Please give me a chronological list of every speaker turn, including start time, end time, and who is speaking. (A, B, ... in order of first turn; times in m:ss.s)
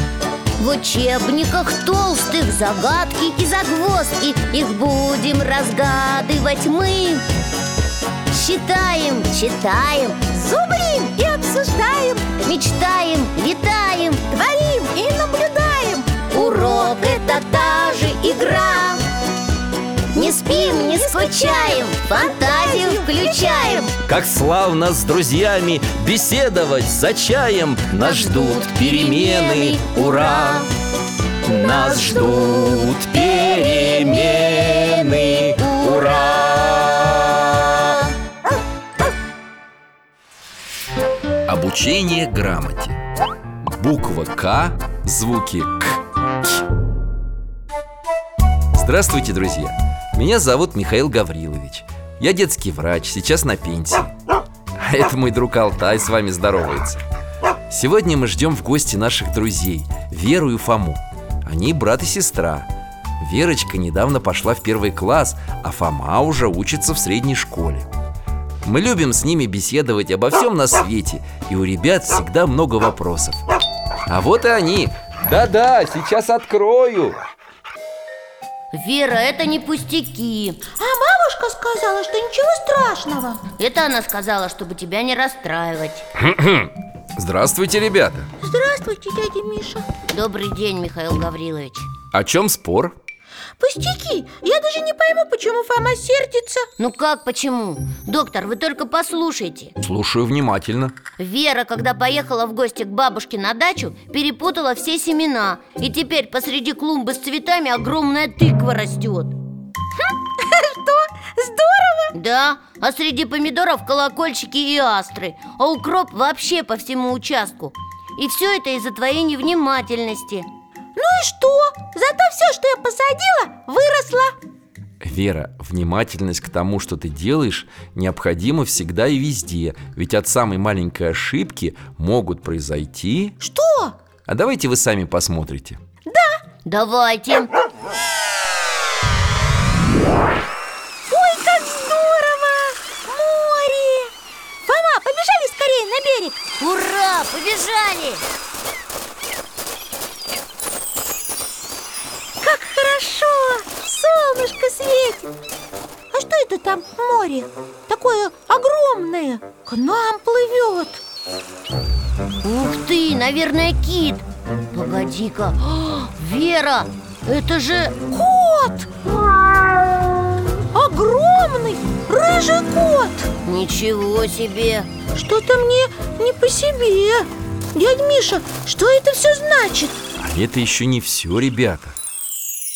0:00.6-0:07.2 A
0:08.3-0:10.2 A
0:10.3-0:12.2 B
0:12.4-0:14.2 A
0:14.3-0:16.7 B
0:16.3-0:19.0 A
0:20.1-0:23.9 A
0:20.5-0:23.9 B
0:24.0-0:30.7 C
0:28.0-0:30.7 A
0:31.4-0:37.7 C
0:35.6-0:36.4 A
0:41.4-0:43.0 C
0:43.7-0:46.0 C
0:48.7-0:54.1 C
0:54.8-0:57.0 C
0:57.7-1:02.7 C
1:03.2-1:07.9 C
1:08.6-1:13.4 C
1:14.1-1:17.2 C
1:18.7-1:20.6 A
1:20.8-1:23.4 B
1:23.6-1:26.0 A
1:26.2-1:28.3 C
1:28.4-1:29.8 B
1:30.1-1:31.9 A
1:32.1-1:32.9 C
1:33.6-1:36.6 B
1:36.8-1:39.7 A
1:39.8-1:40.9 C
1:41.2-1:49.3 A
1:50.0-1:52.1 B
1:52.1-2:00.5 A
2:01.0-2:04.3 B
2:05.0-2:13.4 C
2:13.4-2:14.0 B
2:14.3-2:15.8 C
2:16.1-2:16.4 B
2:16.6-2:17.5 A
2:21.1-2:24.1 B
2:24.7-2:26.4 B
2:26.6-2:28.2 A
2:32.4-2:35.3 B
2:36.1-2:41.0 B
2:42.4-2:48.0 A
2:48.1-2:48.9 B
2:50.7-2:53.3 B
2:53.4-2:54.9 A
2:55.1-3:00.0 B
3:00.2-3:01.9 C